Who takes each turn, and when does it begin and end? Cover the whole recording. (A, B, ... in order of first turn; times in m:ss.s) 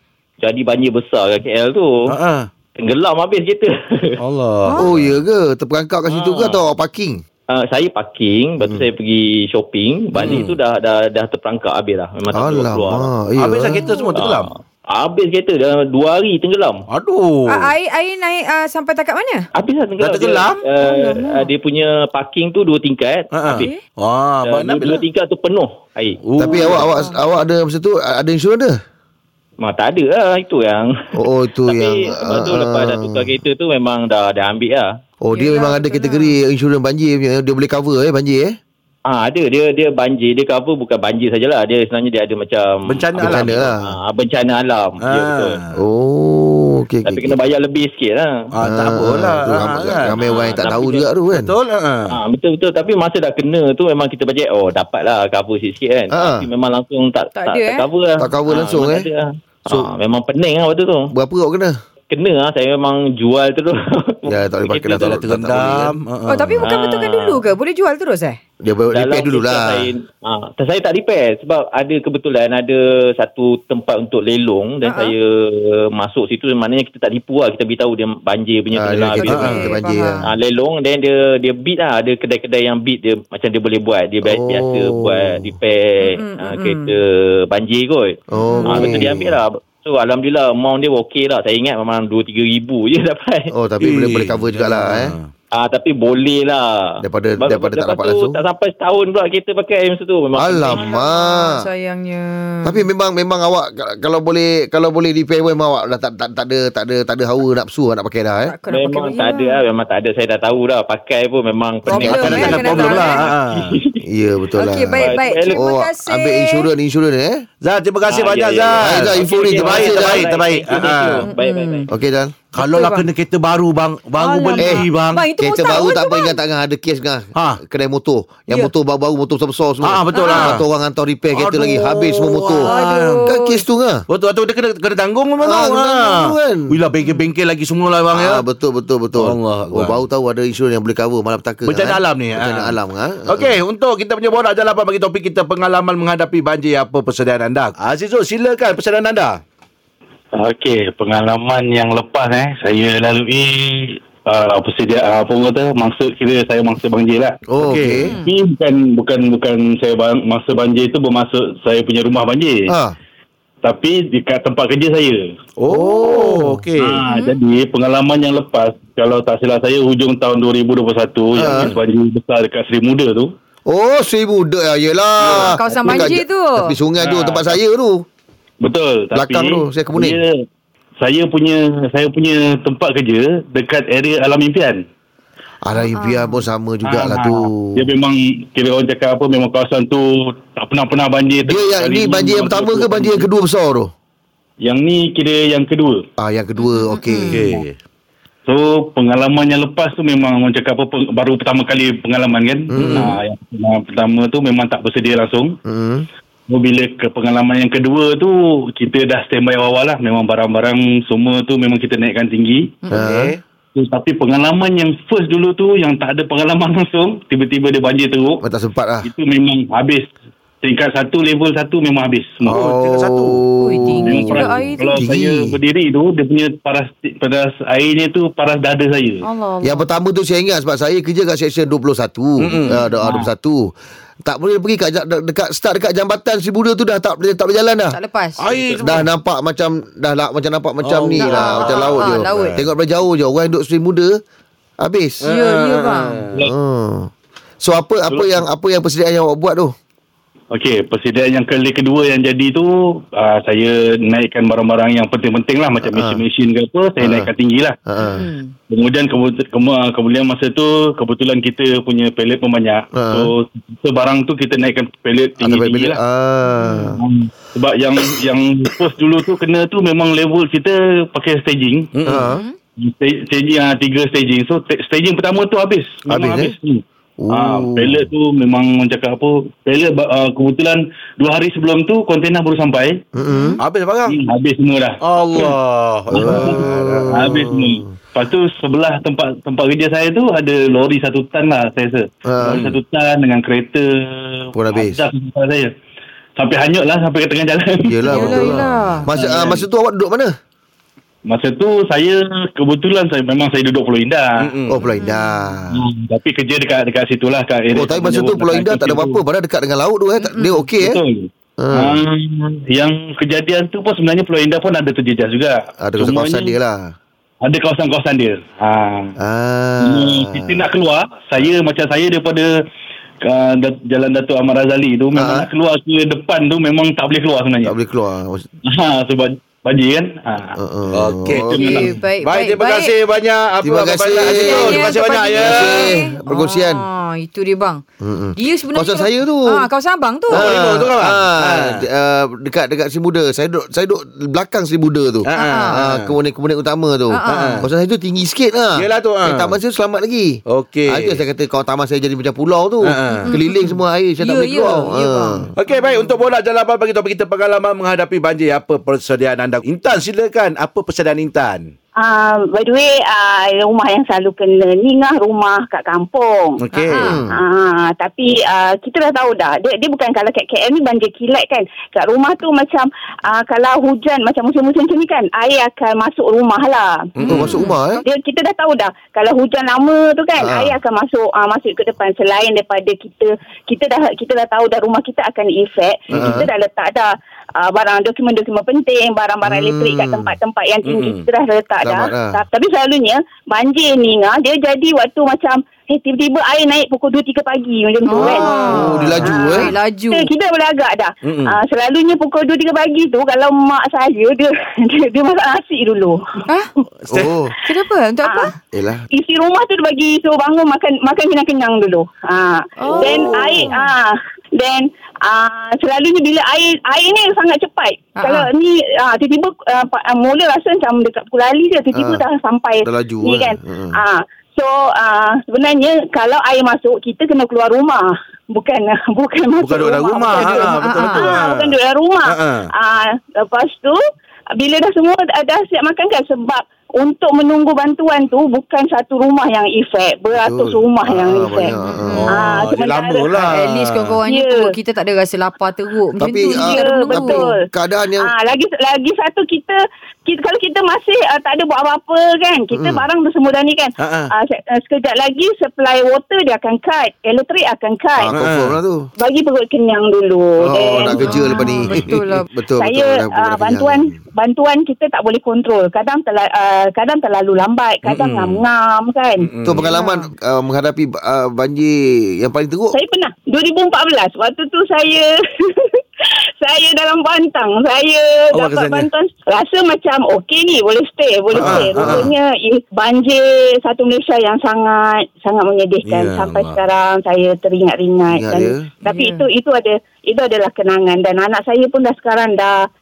0:00.4-0:02.1 A
0:02.1-0:02.5 B
0:02.8-0:04.2 A
0:04.2-0:05.1 B
0:04.6-0:04.9 C
0:04.8-0:07.2 D
0:06.1-0:06.6 A
0:07.5-0:13.1 A
0:10.1-0:10.6 B
0:12.3-0:13.8 D
0:13.4-0:14.5 B
0:13.8-0:14.1 C
0:14.2-0:16.8 A
0:16.9-0:17.7 B
0:17.5-0:19.4 C
0:19.6-0:23.7 A
0:20.0-0:20.6 B
0:20.8-0:21.5 C
0:23.3-0:25.0 B
0:23.5-0:23.8 C
0:24.4-0:26.2 A
0:26.2-0:26.9 B
0:26.4-0:28.8 D
0:26.7-0:27.2 C
0:29.6-0:34.9 A
0:31.1-0:33.4 D
0:35.2-0:38.6 D
0:35.3-0:36.3 C
0:39.1-0:45.6 A
0:42.9-0:43.7 B
0:43.2-0:43.9 D
0:45.0-0:45.8 B
0:45.7-0:47.4 D
0:47.0-0:48.3 A
0:48.5-0:50.2 B
0:48.6-0:51.5 D
0:50.1-0:51.1 A
0:51.3-0:52.1 B
0:52.1-1:01.1 A
0:56.1-0:56.5 D
0:57.3-0:57.8 C
0:58.2-0:59.1 D
1:01.1-1:01.8 D
1:02.1-1:05.2 A
1:04.2-1:05.9 D
1:05.0-1:06.7 B
1:06.3-1:08.4 C
1:06.6-1:07.5 A
1:08.6-1:09.9 D
1:08.9-1:19.7 A
1:14.8-1:15.1 C
1:18.7-1:20.2 D
1:19.2-1:20.2 C
1:19.3-1:19.7 B
1:20.2-1:33.5 A
1:24.2-1:25.5 D
1:26.0-1:26.9 C
1:28.3-1:29.3 D
1:28.3-1:29.1 C
1:33.5-1:35.2 D
1:33.8-1:35.3 B
1:35.5-1:41.0 A
1:37.0-1:38.4 D
1:40.4-1:41.6 D
1:40.7-1:42.8 C
1:42.6-1:48.6 D
1:48.5-1:49.6 C
1:48.7-1:54.0 A
1:51.9-1:53.2 C
1:51.9-1:53.7 B
1:51.9-1:52.7 D
1:54.0-1:57.4 D
1:54.6-1:56.7 C
1:55.0-1:55.7 A
1:57.6-2:01.3 B
1:58.1-2:01.9 A
1:58.8-2:00.3 D
2:01.2-2:01.9 C
2:01.9-2:02.3 D
2:02.5-2:05.2 B
2:02.6-2:03.1 C
2:04.2-2:06.4 C
2:04.6-2:14.0 D
2:07.3-2:07.6 B
2:09.8-2:10.6 B
2:10.1-2:10.6 C
2:11.3-2:13.2 B
2:12.5-2:13.6 C
2:14.1-2:18.4 B
2:15.4-2:16.7 D
2:18.1-2:23.5 D
2:19.2-2:20.0 B
2:21.6-2:22.8 B
2:23.3-2:29.4 B
2:30.4-2:37.3 E
2:37.5-2:38.2 D
2:37.6-2:38.1 B
2:38.0-2:38.3 C
2:38.2-2:42.7 E
2:42.7-2:43.0 D
2:43.6-2:45.3 E
2:45.6-2:47.0 B
2:45.7-2:46.6 D
2:46.8-2:53.3 E
2:47.1-2:47.4 C
2:51.4-2:51.7 D
2:51.5-2:51.8 B
2:53.7-2:58.0 D
2:55.2-2:56.2 E
2:55.4-2:56.7 C
2:57.0-2:57.6 E
2:58.6-3:00.4 E
2:59.1-3:00.2 D
3:01.0-3:04.8 E
3:05.6-3:07.8 D
3:05.8-3:06.4 C
3:06.8-3:13.3 E
3:11.4-3:13.9 D
3:14.6-3:16.0 E
3:16.2-3:17.6 D
3:16.6-3:17.6 C
3:17.3-3:17.8 B
3:18.5-3:25.6 E
3:22.7-3:23.1 D
3:22.8-3:23.2 B
3:25.6-3:26.1 D
3:26.5-3:32.8 E
3:32.8-3:33.1 C
3:32.9-3:33.3 D
3:32.9-3:33.4 B
3:33.7-3:38.4 E
3:38.4-3:39.1 D
3:39.0-3:40.1 E
3:40.6-3:42.6 E
3:42.4-3:43.4 B
3:42.5-3:45.6 D
3:43.6-3:45.0 C
3:44.0-3:49.2 E
3:49.2-3:49.9 C
3:49.6-3:53.7 D
3:52.4-3:52.8 B
3:52.6-3:52.9 C
3:53.0-3:53.3 E
3:54.2-3:58.0 D
3:57.9-3:58.4 C
3:58.4-3:59.1 B
3:58.5-3:59.0 E
3:58.8-4:04.2 D
4:00.8-4:02.7 B
4:01.2-4:02.6 C
4:04.8-4:05.2 D
4:05.2-4:06.4 B
4:05.2-4:06.3 C
4:06.4-4:07.1 D
4:07.6-4:09.7 D
4:08.1-4:08.4 E
4:10.5-4:17.8 E
4:15.9-4:16.2 D
4:17.0-4:17.3 D
4:17.9-4:18.3 D
4:18.0-4:18.5 C
4:18.7-4:26.0 E
4:22.9-4:23.3 D
4:25.4-4:27.0 D
4:26.6-4:26.9 C
4:26.9-4:31.9 E
4:31.9-4:32.3 B
4:32.0-4:32.4 D
4:32.2-4:32.6 C
4:32.8-4:43.0 E
4:36.1-4:36.5 D
4:37.2-4:38.1 D
4:43.1-4:43.6 D
4:43.3-4:43.6 C
4:43.6-4:44.2 B
4:44.1-4:45.5 E
4:45.0-4:47.3 B
4:46.1-4:55.7 E
4:46.1-4:47.9 D
4:52.3-4:52.6 D
4:52.5-4:52.8 B
4:54.5-4:55.0 D
4:56.4-4:58.5 E
4:57.9-5:00.3 D
4:58.1-4:59.1 C
4:59.1-4:59.6 E
5:01.3-5:04.5 E
5:04.4-5:04.8 B
5:04.7-5:05.8 D
5:04.8-5:05.5 C
5:05.7-5:09.2 E
5:07.7-5:11.0 D
5:10.8-5:16.6 E
5:11.6-5:12.0 D
5:15.8-5:16.9 D
5:17.4-5:19.1 E
5:19.2-5:20.6 D
5:19.8-5:22.5 E
5:23.2-5:27.8 E
5:25.2-5:25.5 D
5:27.6-5:28.4 D
5:28.6-5:30.6 E
5:30.5-5:32.0 D
5:30.9-5:36.0 B
5:31.3-5:31.9 E
5:31.5-5:32.9 C
5:33.6-5:36.8 D
5:34.1-5:37.8 C
5:38.0-5:39.7 D
5:38.4-5:40.6 C
5:40.3-5:55.5 D
5:40.3-5:41.8 B
5:45.2-5:46.1 B
5:45.3-5:45.8 C
5:47.1-5:47.7 C
5:47.2-5:47.6 B
5:48.8-5:49.5 B
5:50.5-5:51.2 B
5:52.8-5:53.3 B
5:53.1-5:56.1 C
5:55.6-6:01.7 B
6:02.0-6:06.6 F
6:06.6-6:07.2 B
6:06.7-6:07.2 C
6:06.9-6:07.3 D
6:07.3-6:17.1 F
6:17.2-6:17.6 B
6:17.2-6:17.8 C
6:17.3-6:18.0 D
6:18.0-6:46.2 F
6:20.4-6:20.8 D
6:26.1-6:26.5 D
6:26.1-6:26.5 B
6:29.4-6:30.4 D
6:30.8-6:31.2 B
6:31.8-6:32.4 D
6:38.1-6:40.3 C
6:38.2-6:39.3 B
6:38.3-6:39.7 D
6:41.2-6:41.6 B
6:47.0-6:47.4 B
6:47.1-6:47.5 D
6:47.6-6:48.5 C
6:48.2-6:48.5 F
6:48.7-6:49.0 D
6:49.1-7:14.0 F
6:52.8-6:53.9 C
6:52.9-6:53.7 D
6:58.2-6:58.5 C
7:01.9-7:02.2 D
7:02.8-7:04.0 D
7:09.6-7:12.7 B
7:10.3-7:11.3 C
7:14.6-7:21.7 F
7:20.3-7:22.3 D
7:21.7-7:22.3 C
7:22.1-7:24.2 B
7:22.3-7:23.4 F
7:23.4-7:27.5 C
7:24.2-7:24.7 F
7:26.2-7:28.3 D
7:26.5-7:27.6 F
7:28.2-7:38.3 F
7:32.7-7:33.0 D
7:34.0-7:34.3 B
7:38.2-7:39.1 D
7:38.3-7:38.8 B
7:39.2-7:41.7 F
7:40.6-7:44.2 D
7:41.1-7:42.5 C
7:42.8-7:49.5 F
7:48.0-7:48.6 B
7:49.5-7:49.9 B
7:49.6-7:53.0 D
7:49.8-7:50.3 C
7:52.9-8:12.8 F
7:58.5-7:59.1 B
8:01.5-8:02.3 D
8:01.5-8:02.3 B
8:06.0-8:06.8 B
8:08.3-8:08.9 D
8:09.1-8:09.4 C